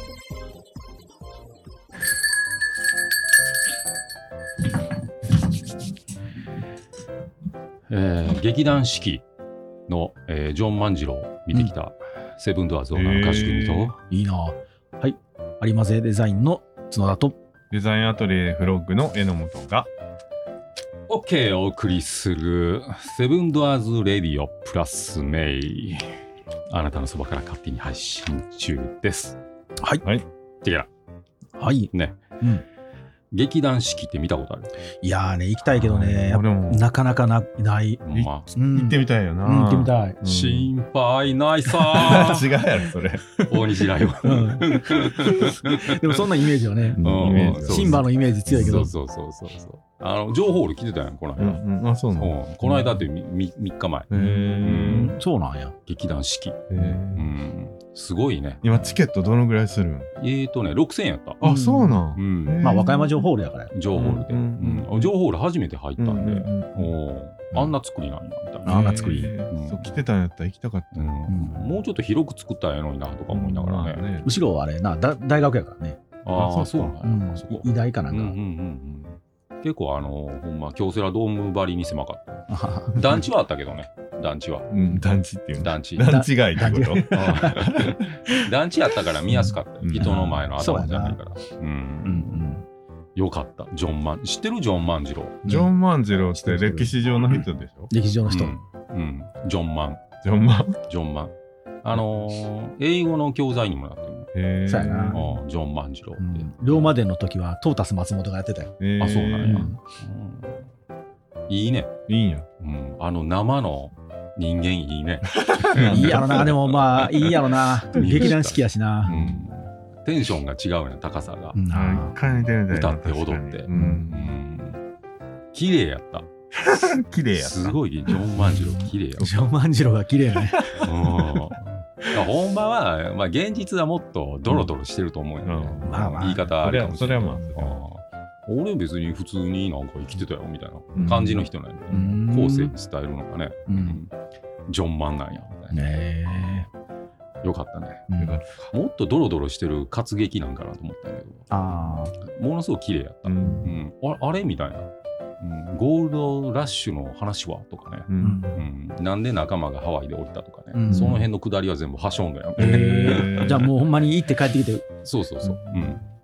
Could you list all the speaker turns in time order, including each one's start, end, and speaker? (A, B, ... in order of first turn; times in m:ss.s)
0:07.9-0:09.2 A
0:09.9-0:14.0 A
0:12.9-0:13.9 B
0:14.1-0:17.4 C
0:17.7-0:19.9 B
0:21.1-0:26.0 A
0:26.7-0:29.4 A
0:31.6-0:32.6 C
0:33.3-0:34.7 A
0:35.0-0:38.0 C
0:35.6-0:36.9 B
0:38.0-0:38.5 A
0:38.1-0:40.7 B
0:38.5-0:40.2 C
0:40.2-0:42.6 A
0:41.9-0:43.2 B
0:43.4-0:45.9 A
0:44.2-0:48.9 C
0:47.0-0:48.9 B
0:47.0-0:54.1 A
0:51.4-0:52.3 B
0:54.1-0:55.2 B
0:54.1-0:55.7 C
0:54.6-0:55.2 A
0:55.9-0:58.7 A
0:56.7-0:57.3 B
0:58.6-1:00.1 B
1:00.2-1:01.4 A
1:01.4-1:03.2 B
1:01.4-1:02.0 C
1:02.1-1:02.7 A
1:02.6-1:03.7 C
1:03.7-1:09.9 A
1:03.9-1:05.1 B
1:06.0-1:06.9 B
1:08.6-1:09.3 C
1:08.6-1:11.7 B
1:10.9-1:14.0 A
1:11.3-1:11.6 C
1:13.3-1:14.3 B
1:14.2-1:16.0 C
1:16.2-1:24.7 A
1:16.3-1:17.0 B
1:17.0-1:18.4 C
1:22.5-1:23.2 C
1:24.7-1:28.0 B
1:25.6-1:26.2 A
1:26.0-1:27.7 C
1:27.1-1:32.4 A
1:29.3-1:31.2 C
1:29.8-1:30.4 B
1:32.0-1:32.6 C
1:33.2-1:35.4 A
1:35.4-1:37.0 C
1:35.4-1:37.9 B
1:37.9-1:38.5 C
1:38.2-1:40.0 A
1:40.2-1:40.8 B
1:40.9-1:41.3 A
1:41.8-1:44.3 A
1:44.3-1:45.4 B
1:44.6-1:45.2 C
1:45.1-1:47.0 A
1:46.2-1:48.7 C
1:48.8-1:49.7 B
1:49.0-1:50.7 A
1:49.4-1:49.8 C
1:51.5-1:51.9 A
1:52.1-1:52.4 B
1:52.6-2:01.6 A
1:55.3-1:56.6 B
1:55.9-1:59.1 C
1:57.9-1:58.3 B
1:59.0-1:59.4 B
2:01.5-2:02.2 C
2:01.7-2:04.3 B
2:02.2-2:04.8 A
2:03.7-2:04.0 C
2:05.5-2:06.3 A
2:06.5-2:07.8 B
2:07.3-2:09.5 A
2:08.4-2:09.3 B
2:09.2-2:10.7 C
2:10.5-2:11.4 B
2:10.8-2:24.1 A
2:15.4-2:17.8 B
2:15.8-2:16.5 C
2:20.9-2:21.5 B
2:21.9-2:22.7 C
2:23.7-2:24.0 C
2:24.7-2:26.7 A
2:25.7-2:26.7 C
2:27.4-2:28.1 A
2:28.1-2:28.4 C
2:28.2-2:28.7 B
2:28.7-2:31.5 A
2:31.5-2:32.1 C
2:32.2-2:34.9 A
2:33.2-2:33.8 B
2:35.4-2:43.7 A
2:38.1-2:38.4 B
2:38.2-2:38.6 C
2:40.7-2:41.2 C
2:40.9-2:41.2 B
2:42.6-2:43.7 B
2:42.6-2:44.8 C
2:45.0-2:46.0 A
2:45.4-2:46.0 B